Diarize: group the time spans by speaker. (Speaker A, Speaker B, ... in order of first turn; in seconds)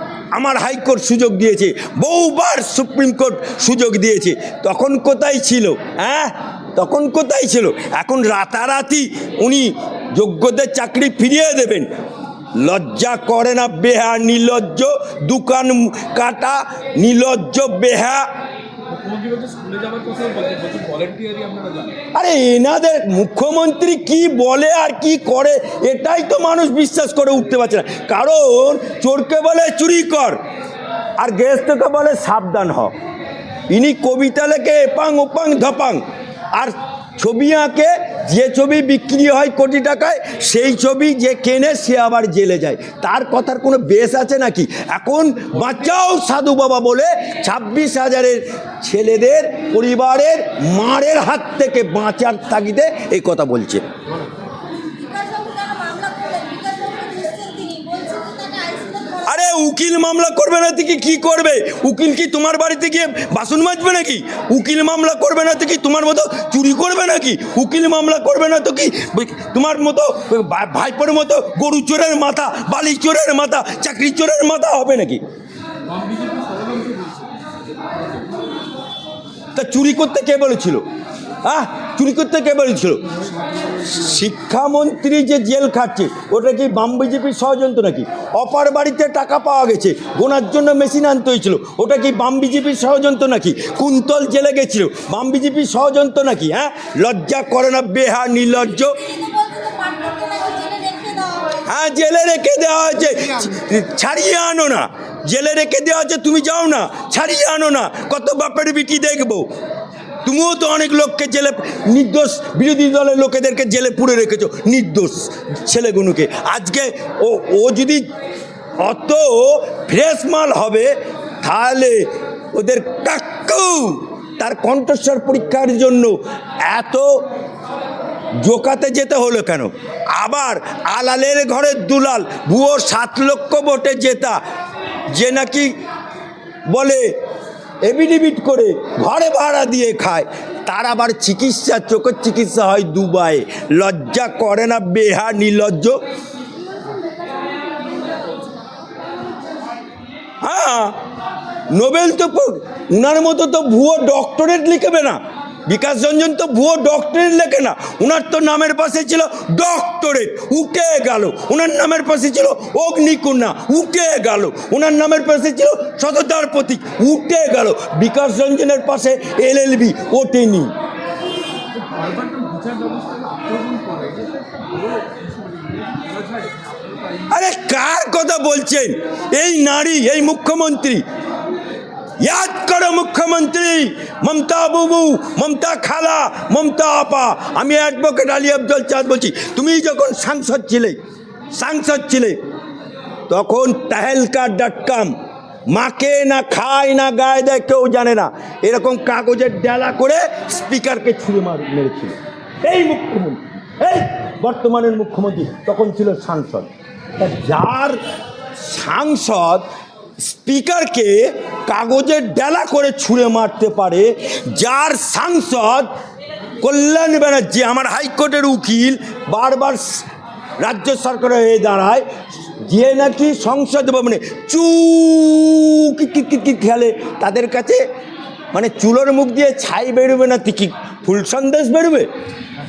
Speaker A: 0.3-11.9, 12.5-18.2, 22.1-30.4, 31.2-32.9, 33.7-53.8, 59.2-75.2, 79.5-80.8, 81.4-83.0, 83.8-99.0, 101.7-109.5, 110.2-118.0, 118.8-122.0, 122.5-127.1, 128.4-134.4, 135.1-135.7, 136.7-137.0, 137.8-146.0, 150.4-151.0, 151.7-170.7, 177.3-181.0, 182.2-191.0, 191.5-192.4, 193.3-195.1, 195.7-208.0, 208.6-209.6, 210.2-215.9, 216.6-220.1, 220.6-222.1, 222.6-227.8, 228.5-232.1
Speaker B: 18.9-22.0, 75.9-77.3, 78.0-78.3, 171.7-177.2
Speaker C: 54.8-59.5, 98.8-101.5, 146.6-148.5